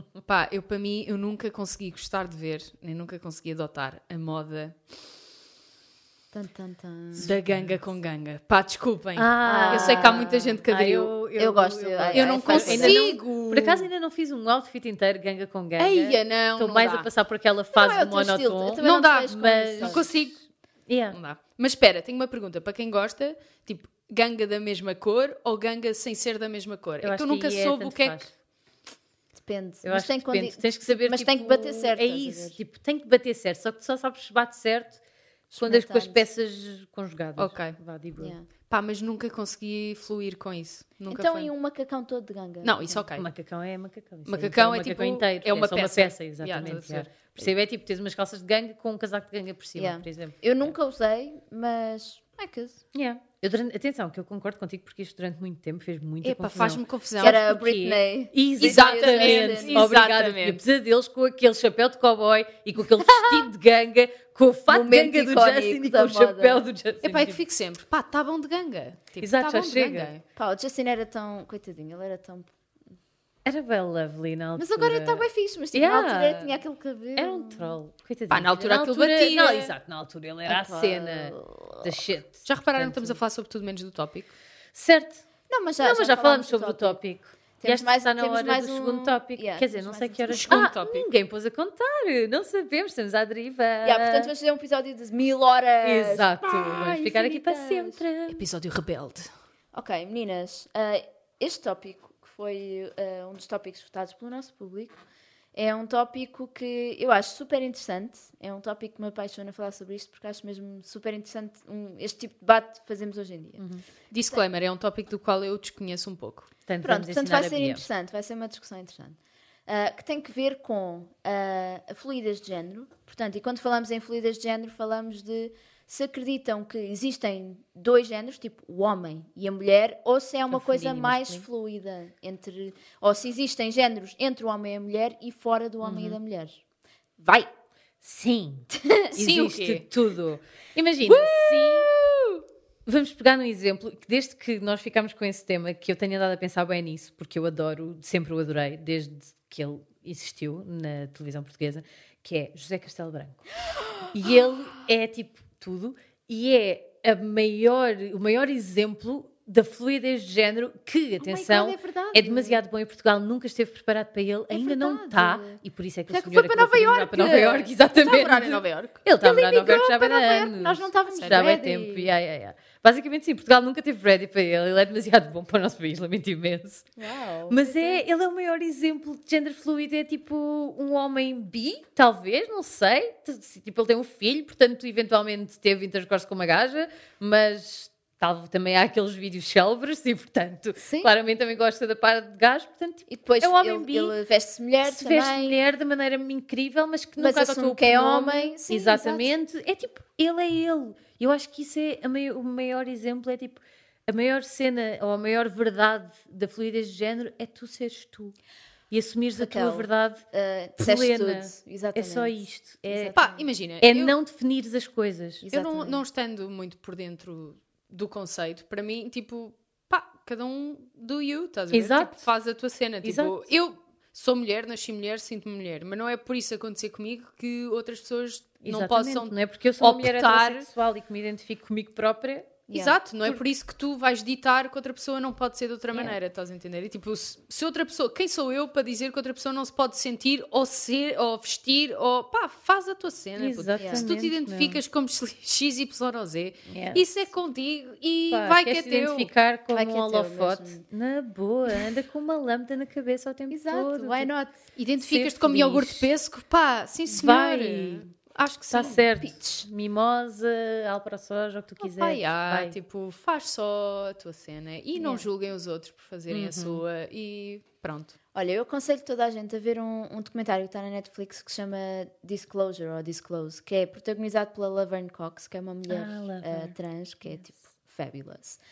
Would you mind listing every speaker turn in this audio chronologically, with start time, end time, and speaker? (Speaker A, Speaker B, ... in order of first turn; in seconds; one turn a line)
Speaker A: 0.2-4.8
Speaker B: 6.3-7.3
Speaker A: 7.2-11.1
Speaker C: 7.2-7.8
Speaker C: 9.2-20.3
Speaker B: 9.4-10.6
Speaker B: 11.4-13.0
Speaker A: 12.1-13.9
Speaker A: 15.8-17.1
Speaker B: 17.7-20.0
Speaker A: 18.8-20.4
Speaker C: 20.9-21.2
Speaker A: 21.1-28.3
Speaker C: 27.0-28.3
Speaker B: 29.3-32.6
Speaker C: 29.8-35.0
Speaker B: 35.5-36.2
Speaker C: 35.6-38.3
Speaker A: 37.4-37.8
Speaker B: 38.2-38.5
Speaker A: 38.7-41.5
Speaker B: 41.1-43.0
Speaker A: 42.6-43.3
Speaker C: 43.1-50.4
Speaker A: 44.3-47.5
Speaker B: 49.8-52.8
Speaker C: 52.9-67.4
Speaker A: 56.2-57.4
Speaker B: 57.2-59.9
Speaker A: 58.6-60.6
Speaker B: 63.0-63.5
Speaker B: 64.7-66.6
Speaker A: 67.0-70.2
Speaker C: 69.2-70.1
Speaker B: 70.3-72.5
Speaker C: 73.4-76.6
Speaker B: 74.5-77.8
Speaker C: 77.2-83.2
Speaker A: 78.3-79.7
Speaker B: 80.5-81.9
Speaker A: 82.4-84.3
Speaker C: 84.7-85.2
Speaker B: 85.5-87.0
Speaker C: 85.8-94.3
Speaker B: 87.6-90.7
Speaker A: 90.3-91.0
Speaker B: 93.8-98.0
Speaker C: 95.8-98.4
Speaker A: 98.3-99.3
Speaker B: 99.7-105.0
Speaker B: 105.5-113.6
Speaker C: 113.6-113.8
Speaker A: 114.1-116.5
Speaker C: 116.7-117.8
Speaker B: 116.8-136.6
Speaker C: 130.5-131.4
Speaker C: 135.8-136.2
Speaker B: 137.2-137.5
Speaker C: 138.0-141.9
Speaker B: 138.7-139.1
Speaker A: 139.2-139.9
Speaker A: 141.1-142.4
Speaker C: 142.8-153.4
Speaker C: 154.1-176.9
Speaker B: 161.2-162.6
Speaker B: 164.5-172.1
Speaker A: 168.0-168.9
Speaker A: 171.1-171.4
Speaker B: 177.0-178.0
Speaker C: 177.5-194.2
Speaker B: 190.8-191.1
Speaker B: 193.1-195.6
Speaker C: 194.8-208.3
Speaker B: 197.2-199.3
Speaker C: 208.9-210.2
Speaker B: 209.4-213.4
Speaker C: 210.8-213.2
Speaker A: 213.2-214.1
Speaker C: 213.8-215.4
Speaker B: 215.4-216.0
Speaker A: 215.5-230.7
Speaker C: 221.7-222.3
Speaker C: 223.0-223.4
Speaker C: 228.6-232.7
Speaker A: 232.7-249.3
Speaker C: 243.4-244.8
Speaker B: 243.8-244.1
Speaker C: 246.7-247.0
Speaker C: 248.3-254.3
Speaker B: 249.7-250.8
Speaker B: 253.5-254.6
Speaker A: 254.8-259.0
Speaker C: 255.0-256.1
Speaker C: 257.1-258.1
Speaker C: 258.7-262.7
Speaker B: 259.2-259.6
Speaker A: 261.8-268.1
Speaker B: 264.9-265.2
Speaker C: 266.3-266.8
Speaker B: 268.3-278.6
Speaker C: 275.9-276.7